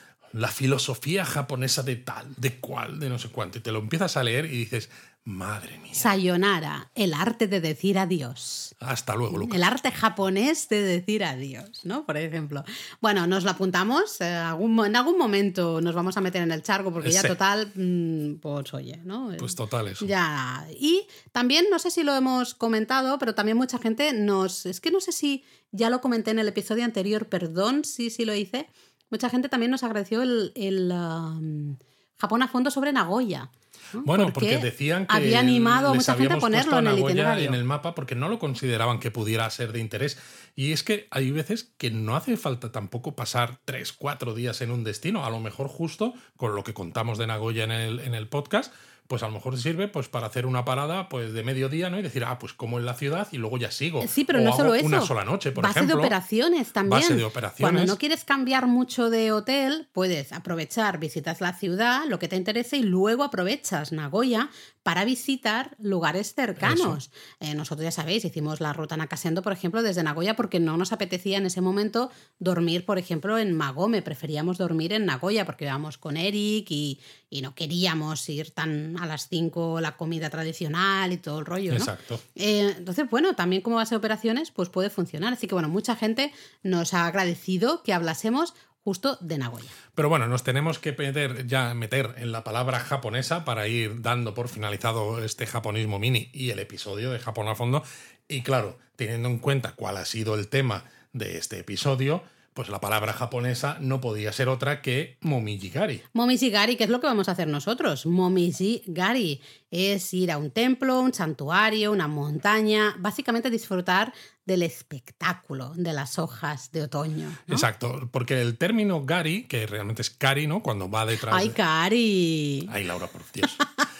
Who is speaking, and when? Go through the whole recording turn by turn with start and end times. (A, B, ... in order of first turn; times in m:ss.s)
0:00.3-0:06.1 A
0:05.9-0:08.7 B
0:08.8-0:09.6 A
0:09.3-0:37.6 B
0:17.0-0:17.3 A
0:19.4-0:20.1 A
0:34.0-0:56.1 A
0:54.0-1:29.7 B
0:56.8-0:58.0 A
1:06.6-1:07.0 A
1:21.7-1:22.2 A
1:30.0-1:46.0 A
1:46.1-1:57.7 B
1:57.5-2:01.6 A
2:01.3-2:02.7 B
2:02.7-2:03.6 A